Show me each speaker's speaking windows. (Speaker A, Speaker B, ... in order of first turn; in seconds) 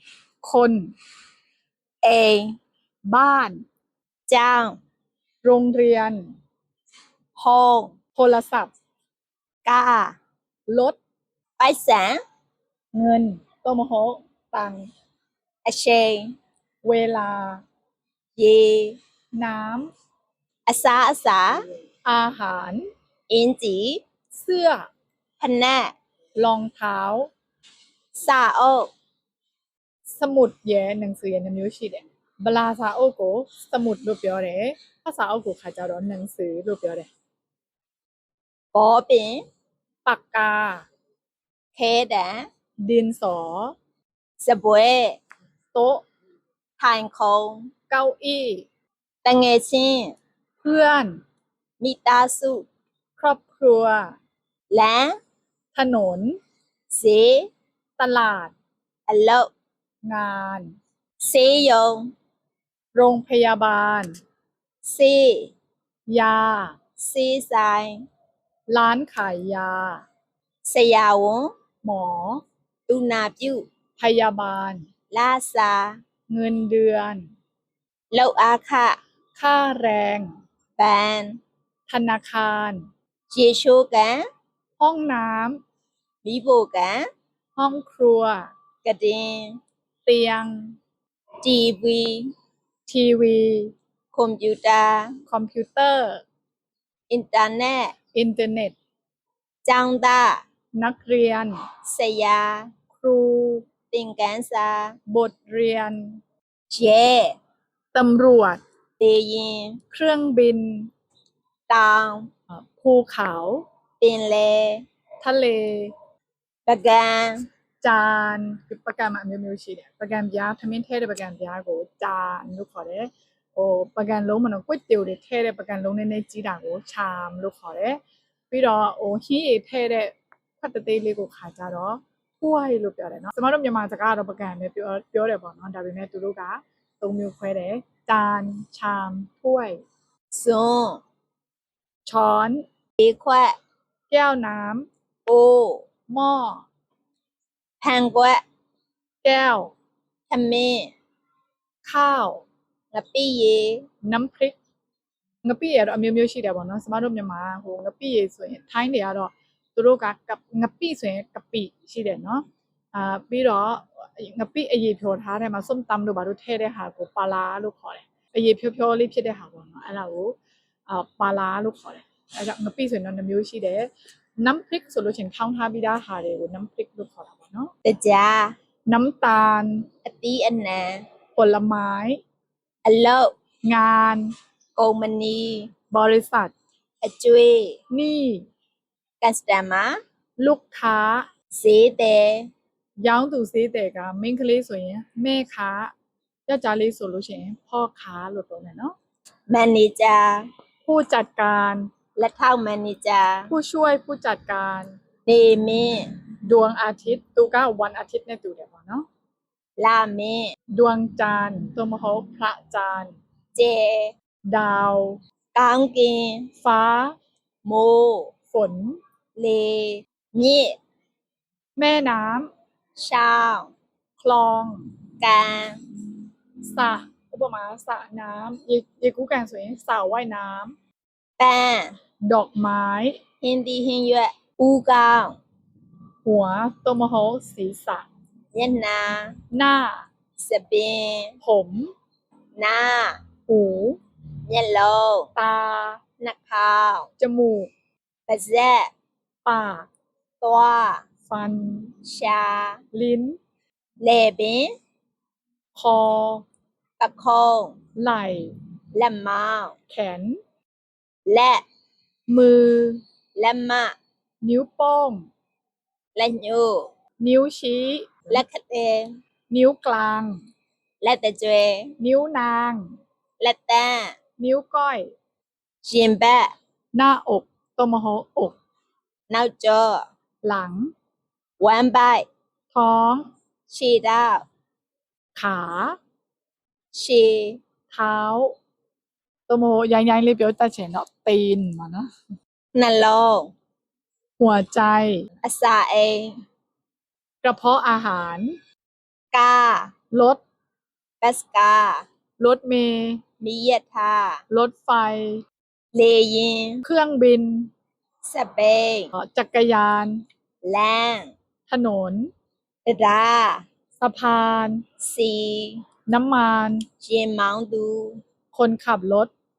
Speaker A: 0.4-0.9, 3.0-3.6, 5.4-6.3, 8.2-8.7, 10.7-11.0, 12.9-14.9, 16.8-17.6, 19.3-19.9, 22.0-22.9, 24.3-24.9, 26.4-27.3, 30.2-37.1, 40.0-40.9, 42.8-43.7, 45.7-46.0, 47.9-48.6, 50.6-51.2, 53.2-54.1, 55.7-56.4, 58.0-58.5, 60.0-60.7, 62.9-64.1, 66.1-66.7, 68.7-70.0, 71.8-72.4, 74.0-74.9, 76.3-77.3, 79.3-80.3, 81.9-82.8, 84.8-85.6, 87.6-88.5, 90.0-90.8, 92.9-93.7, 95.3-96.2, 98.1-98.7, 100.8-101.6, 103.0-103.7, 105.1-106.2, 107.9-108.6, 109.9-110.9, 112.5-113.6, 115.2-115.9, 117.8-139.8, 142.1-142.6, 144.1-144.9, 146.1-146.7, 149.2-149.7, 151.8-152.4, 154.0-154.6, 155.4-170.3, 170.9-177.7, 178.9-179.9, 181.3-182.2, 183.7-184.3, 185.9-186.5, 187.9-188.4, 190.4-191.3, 193.0-195.9, 196.5-198.9, 200.8-201.9, 203.5-204.9, 206.4-209.0, 210.7-213.1, 214.5-215.2, 216.6-217.2, 218.5-219.0, 221.8-222.5, 224.2-224.9, 226.6-230.7, 232.2-233.2, 236.2-238.1, 239.5-240.1, 241.4-241.9, 243.5-244.0, 245.3-246.0, 247.2-247.7, 249.4-249.9, 251.3-251.9, 252.9-253.4, 255.7-256.4, 258.0-258.5, 259.9-260.4, 262.3-263.0, 264.4-265.3, 267.2-268.4, 269.5-270.4, 272.0-272.9, 274.4-275.1, 276.9-278.6, 280.4-280.9, 282.7-283.3, 285.4-286.0, 287.9-288.5, 289.5-292.1, 294.4-295.2, 297.4-298.6, 300.1-300.4, 302.4-303.2, 304.5-305.4, 306.8-307.7, 309.1-310.2, 311.7-312.3, 314.0-314.8, 316.1-316.9, 318.5-319.3
Speaker B: 2.0-2.5, 4.3-4.8, 7.3-7.9, 9.6-10.2, 11.6-12.2, 15.6-16.4, 18.4-19.0, 20.7-21.6, 23.3-24.0, 25.4-25.9, 28.1-28.9, 38.7-39.4, 41.8-42.5, 44.4-45.2, 46.8-47.7, 49.2-50.1, 51.8-52.7, 54.7-55.1, 56.9-57.5, 59.1-59.5, 61.2-62.1, 64.8-65.5, 67.0-68.0, 70.7-71.5, 72.9-73.7, 75.1-76.0, 78.1-79.0, 80.8-81.4, 83.3-84.2, 86.2-87.1, 88.8-89.6, 91.4-92.3, 94.1-95.2, 97.1-97.9, 99.6-100.4, 101.9-102.7, 103.9-105.0, 106.7-107.4, 109.0-109.8, 111.7-112.3, 114.0-114.8, 116.7-117.5, 140.3-141.0, 143.0-143.6, 145.2-145.8, 147.8-148.4, 150.3-150.9, 152.9-153.8, 177.8-178.5, 180.0-181.0, 182.8-183.3, 184.8-185.7, 187.0-187.8, 189.2-190.0, 191.5-192.5, 199.5-200.5, 202.2-203.5, 205.2-206.1, 209.8-210.5, 213.5-214.1, 215.5-216.5, 217.6-218.3, 219.4-220.8, 222.9-223.7, 225.2-225.8, 231.4-231.9, 233.4-235.4, 238.5-239.4, 240.4-241.3, 242.6-243.2, 244.5-245.3, 246.2-247.1, 248.3-248.9, 250.4-251.0, 252.0-252.8, 254.0-254.7, 257.0-257.8, 258.9-259.8, 261.2-261.6, 263.4-263.9, 266.1-266.9, 268.3-269.1, 271.0-271.9, 273.4-274.1, 275.8-276.5, 279.3-280.1, 281.6-282.2, 283.7-284.4, 286.9-287.6, 292.7-293.5, 295.4-296.4, 299.3-299.9, 301.2-302.0, 303.4-304.4, 305.9-306.8, 308.2-309.1, 310.6-311.3, 312.9-313.6, 315.0-315.8, 317.0-318.2